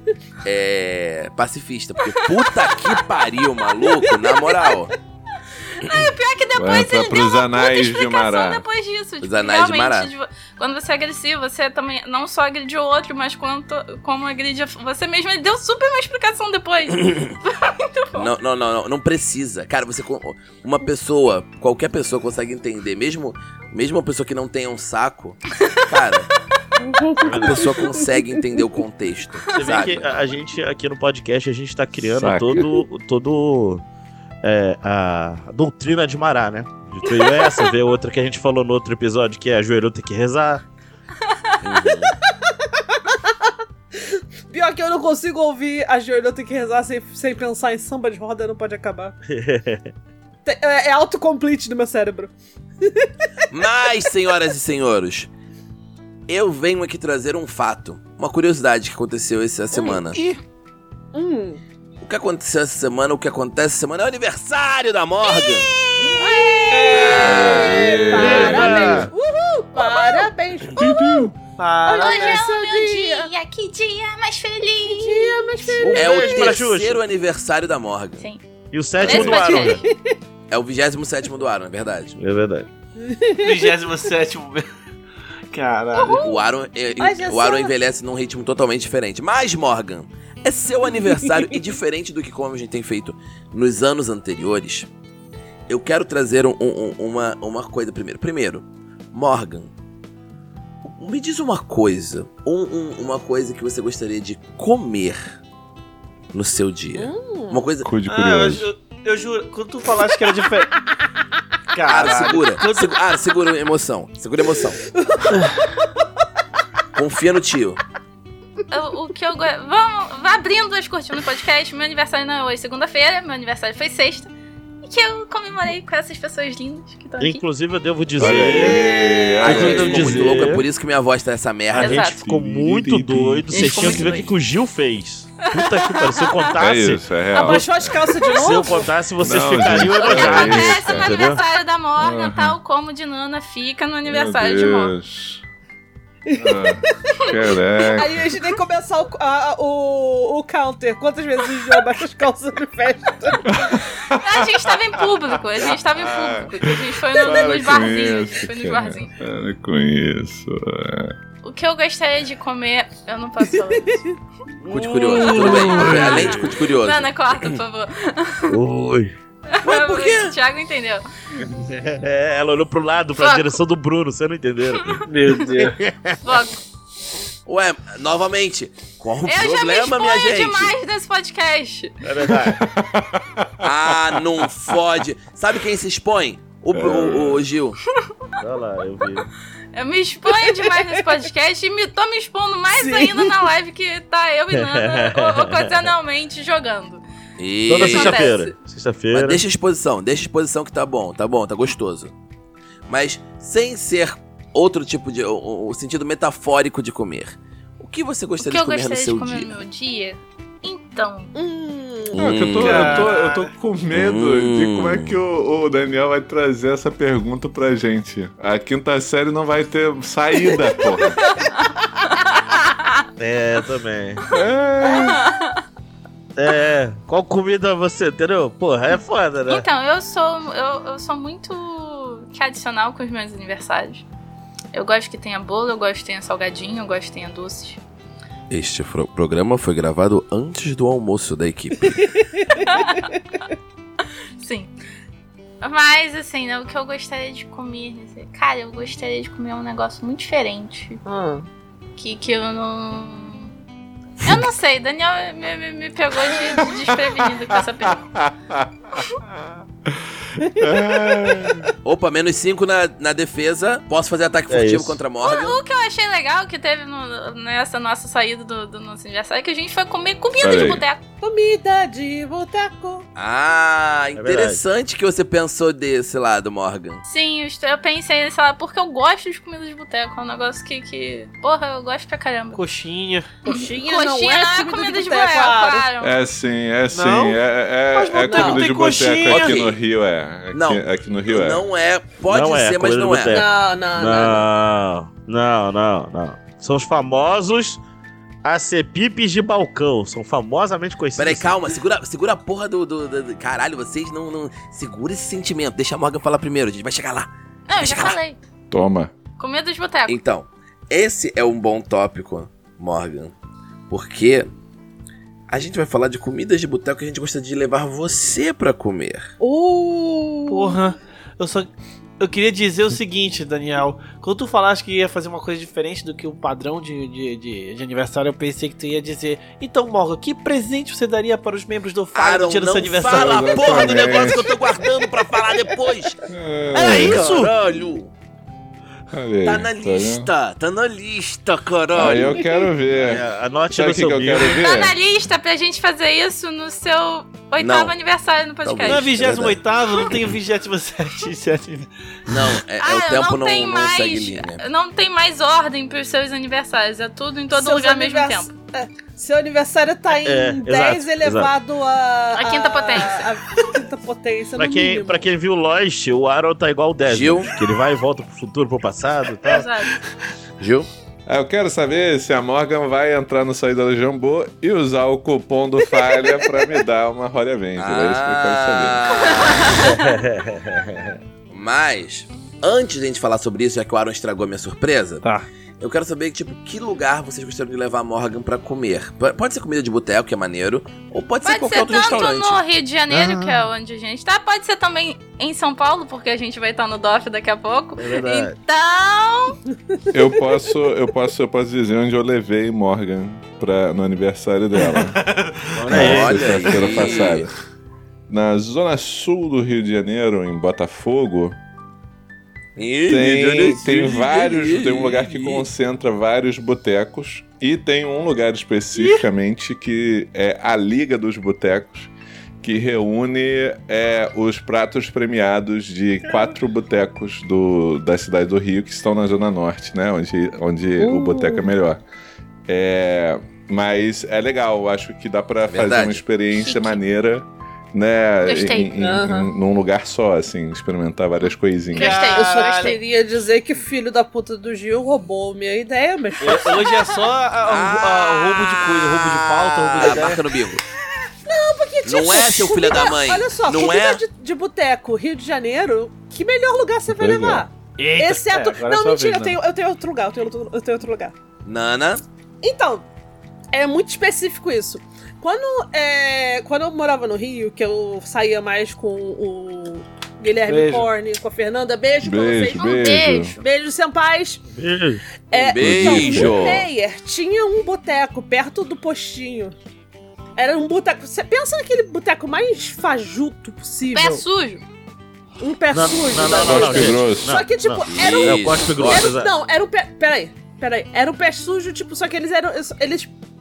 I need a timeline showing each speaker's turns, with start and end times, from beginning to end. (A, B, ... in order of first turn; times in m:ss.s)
0:00.4-0:04.9 A
0:05.8-0:18.3 B
0:06.6-0:08.6 C
0:09.2-0:10.1 A
0:17.0-0:17.3 A
0:18.1-0:26.3 A
0:26.8-0:28.0 D
0:27.2-0:30.1 A
0:27.3-0:27.6 E
0:29.5-0:33.8 E
0:32.1-0:32.6 C
0:34.4-0:40.6 E
0:41.3-0:41.6 B
0:41.6-0:42.1 A
0:44.5-0:49.1 D
0:49.3-0:49.9 E
0:50.4-0:53.1 D
0:53.5-0:55.3 A
0:56.3-1:00.2 A
0:59.7-1:00.2 D
1:01.1-1:01.6 D
1:02.0-1:05.7 A
1:05.2-1:06.6 B
1:06.2-1:11.3 D
1:06.7-1:07.2 F
1:06.9-1:07.8 A
1:07.0-1:09.1 C
1:08.1-1:09.1 E
1:09.8-1:10.3 B
1:10.8-1:11.3 C
1:11.6-1:12.4 F
1:11.8-1:13.3 D
1:11.9-1:16.0 B
1:14.8-1:16.6 D
1:15.8-1:17.0 E
1:15.9-1:18.2 A
1:18.2-1:18.4 B
1:18.7-1:19.8 E
1:19.0-1:19.8 B
1:19.0-1:19.5 C
1:19.5-1:20.0 D
1:20.5-1:22.1 A
1:22.2-1:22.7 E
1:23.0-1:23.8 D
1:23.4-1:24.6 F
1:25.5-1:26.2 F
1:26.0-1:26.4 D
1:26.2-1:34.9 A
1:27.0-1:27.7 D
1:31.1-1:31.4 D
1:35.7-1:39.7 A
1:40.8-1:45.4 A
1:46.3-1:47.9 A
1:46.9-1:47.7 D
1:47.8-1:48.7 C
1:48.0-1:50.7 F
1:51.7-1:52.9 F
1:51.9-1:54.8 A
1:54.9-1:55.6 D
1:56.9-1:57.8 A
1:58.7-2:04.3 B
2:04.8-2:07.4 B
2:07.2-2:08.8 E
2:08.2-2:10.5 C
2:08.2-2:12.0 A
2:09.4-2:10.6 E
2:11.7-2:17.0 E
2:11.8-2:14.3 C
2:11.8-2:12.2 B
2:13.5-2:14.3 B
2:15.6-2:16.5 B
2:16.6-2:18.0 C
2:17.4-2:18.9 D
2:18.3-2:21.4 E
2:19.2-2:21.1 C
2:20.0-2:24.9 B
2:22.0-2:22.5 C
2:24.1-2:25.4 C
2:26.3-2:33.8 D
2:26.4-2:28.2 C
2:33.4-2:34.8 C
2:34.1-2:39.1 B
2:35.9-2:41.1 C
2:41.4-2:44.1 B
2:44.6-2:46.5 E
2:44.7-2:47.6 A
2:45.1-2:48.6 B
2:48.5-2:49.1 E
2:49.5-2:51.0 B
2:49.6-2:50.3 A
2:51.4-2:56.2 E
2:53.2-2:53.6 B
2:55.1-2:55.8 F
2:56.2-2:56.6 B
2:57.4-3:00.7 A
2:59.2-3:02.1 B
3:02.0-3:02.6 E
3:02.3-3:04.7 C
3:03.6-3:07.8 A
3:06.7-3:07.4 C
3:06.8-3:07.1 E
3:08.4-3:09.3 E
3:09.7-3:17.0 B
3:12.7-3:13.5 D
3:14.5-3:15.9 E
3:17.4-3:18.3 A
3:17.7-3:19.4 E
3:17.7-3:18.5 B
3:19.1-3:22.1 A
3:22.9-3:29.5 A
3:28.4-3:31.3 B
3:31.3-3:33.1 D
3:32.1-3:33.0 A
3:32.1-3:41.2 C
3:32.6-3:33.4 F
3:33.9-3:35.2 A
3:42.2-3:42.9 B
3:43.2-3:44.2 E
3:44.3-3:45.2 C
3:44.8-3:45.6 B
3:46.4-3:49.6 E
3:49.5-3:54.0 B
3:54.7-3:57.8 B
3:58.5-4:02.1 A
4:02.6-4:03.1 B
4:04.4-4:04.7 B
4:05.6-4:11.0 B
4:11.0-4:11.5 D
4:12.0-4:13.5 B
4:14.2-4:18.1 B
4:17.5-4:19.0 C
4:19.9-4:21.7 C
4:20.4-4:21.7 D
4:21.8-4:25.6 A
4:24.5-4:25.0 E
4:25.2-4:31.0 B
4:30.4-4:30.8 C
4:31.2-4:33.0 D
4:33.2-4:37.0 A
4:34.1-4:34.6 E
4:37.0-4:42.6 B
4:42.5-4:43.3 F
4:43.4-4:45.8 D
4:43.4-4:46.1 B
4:46.0-4:51.6 C
4:46.9-4:47.4 F
4:47.9-4:49.6 F
4:48.3-4:48.6 D
4:49.3-4:49.8 A
4:50.5-4:53.4 A
4:52.3-4:57.8 E
4:53.3-4:54.4 D
4:54.1-4:54.4 A
4:58.4-5:01.6 E
5:01.2-5:08.2 A
5:07.7-5:08.4 B
5:08.7-5:09.1 C
5:09.4-5:10.2 B
5:10.1-5:13.3 A
5:13.9-5:14.5 A
5:15.5-5:19.3 A
5:19.4-5:20.8 D
5:20.5-5:21.7 F
5:22.2-5:33.6 F
5:32.1-5:36.2 A
5:33.1-5:34.6 C
5:36.3-5:37.3 C
5:36.7-5:37.5 F
5:36.7-5:38.1 A
5:39.1-5:40.3 C
5:39.4-5:42.4 A
5:41.9-5:45.0 C
5:42.3-5:42.7 D
5:43.0-5:44.5 E
5:44.4-5:49.1 B
5:47.6-5:47.9 A
5:48.6-5:49.6 A
5:48.8-5:51.9 F
5:52.3-5:54.6 A
5:52.8-5:58.6 B
5:57.5-6:05.2 D
6:00.2-6:01.5 E
6:02.4-6:03.3 B
6:04.6-6:09.7 E
6:07.1-6:07.6 A
6:09.4-6:10.0 B
6:10.6-6:10.9 A
6:11.3-6:19.0 C
6:17.8-6:19.9 A
6:19.1-6:20.1 B
6:19.7-6:21.2 E
6:21.5-6:25.2 A
6:25.2-6:25.5 F
6:25.8-6:32.6 A
6:31.4-6:39.6 B
6:33.1-6:33.6 E
6:38.0-6:38.6 E
6:40.1-6:45.2 C
6:44.9-6:45.8 F
6:45.7-6:47.3 E
6:45.9-6:47.5 C
6:45.9-6:47.4 A
6:48.3-6:51.6 C
6:52.8-6:55.6 A
6:53.1-7:02.1 C
7:02.6-7:12.0 C
7:11.0-7:11.7 D
7:12.7-7:22.3 C
7:15.7-7:16.2 A
7:16.6-7:17.0 B
7:18.4-7:18.9 B
7:19.0-7:19.5 D
7:21.9-7:23.0 B
7:22.0-7:23.0 F
7:22.3-7:26.9 D
7:26.4-7:30.4 F
7:27.6-7:30.8 A
7:31.4-7:41.3 D
7:32.0-7:34.2 A
7:37.1-7:37.6 C
7:38.0-7:39.6 F
7:41.6-7:42.2 A
7:42.6-7:43.0 D
7:43.7-7:54.6 D
7:50.6-7:51.1 F
7:52.2-7:53.5 C
7:52.8-7:53.6 B
7:54.7-7:55.2 E
7:55.5-7:59.7 D
7:55.5-7:56.8 A
7:55.8-7:56.7 C
8:00.6-8:04.4 D
8:04.1-8:04.8 B
8:05.6-8:13.3 D
8:05.9-8:09.5 E
8:06.4-8:06.9 A
8:06.5-8:07.6 C
8:08.1-8:09.3 A